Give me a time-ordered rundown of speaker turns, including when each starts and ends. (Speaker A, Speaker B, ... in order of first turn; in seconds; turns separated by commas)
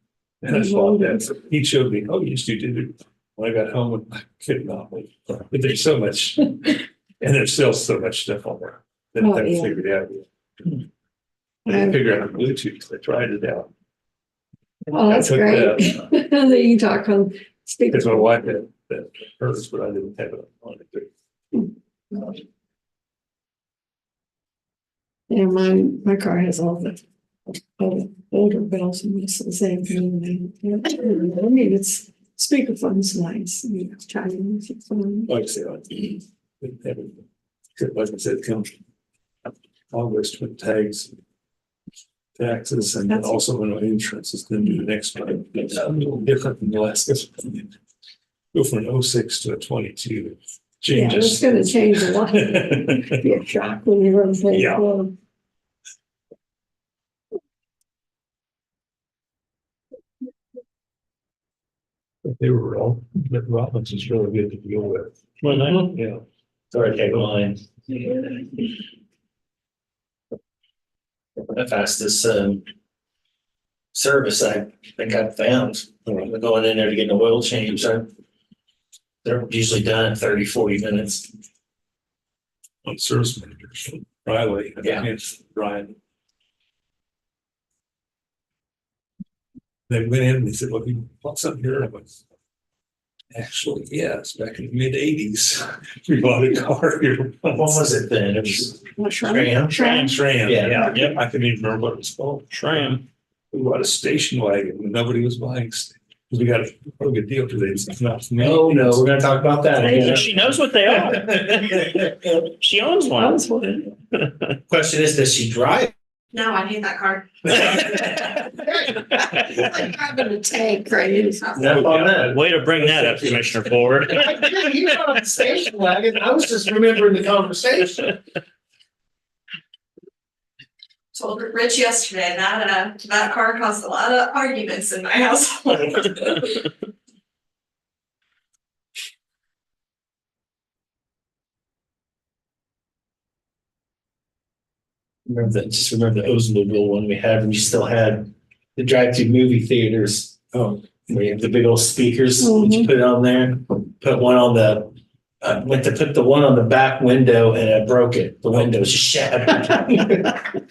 Speaker A: 0.4-10.8, Speaker B: 0.5-1.2, Speaker B: 9.2-9.8, Speaker A: 11.6-13.7, Speaker B: 11.7-12.0, Speaker A: 14.9-16.1, Speaker B: 14.9-18.4, Speaker A: 17.9-21.1, Speaker B: 21.5-22.3, Speaker B: 25.3-27.0, Speaker B: 27.8-35.3, Speaker A: 35.3-37.2, Speaker A: 37.8-38.8, Speaker A: 39.9-41.1, Speaker A: 42.4-47.7, Speaker B: 43.1-43.4, Speaker A: 48.5-53.2, Speaker B: 50.9-55.1, Speaker A: 54.5-54.9, Speaker A: 62.2-66.2, Speaker C: 65.4-66.0, Speaker C: 66.7-67.6, Speaker C: 71.5-72.6, Speaker C: 73.9-78.1, Speaker A: 76.0-76.3, Speaker C: 79.2-81.3, Speaker A: 82.8-85.9, Speaker C: 84.8-85.1, Speaker A: 89.9-92.2, Speaker A: 93.3-98.7, Speaker C: 97.5-99.8, Speaker B: 99.0-100.2, Speaker D: 99.7-101.2, Speaker A: 99.9-109.0, Speaker C: 100.4-101.0, Speaker D: 102.5-103.0, Speaker C: 108.3-110.3, Speaker D: 109.8-113.4, Speaker B: 113.2-113.9, Speaker D: 114.1-114.6, Speaker C: 114.7-115.9, Speaker E: 116.3-117.9, Speaker B: 119.2-121.7, Speaker A: 121.5-123.8, Speaker C: 121.5-122.3, Speaker D: 122.1-124.7, Speaker C: 124.1-128.1, Speaker E: 131.1-136.3, Speaker C: 145.2-160.5, Speaker A: 150.5-150.8, Speaker B: 152.4-152.9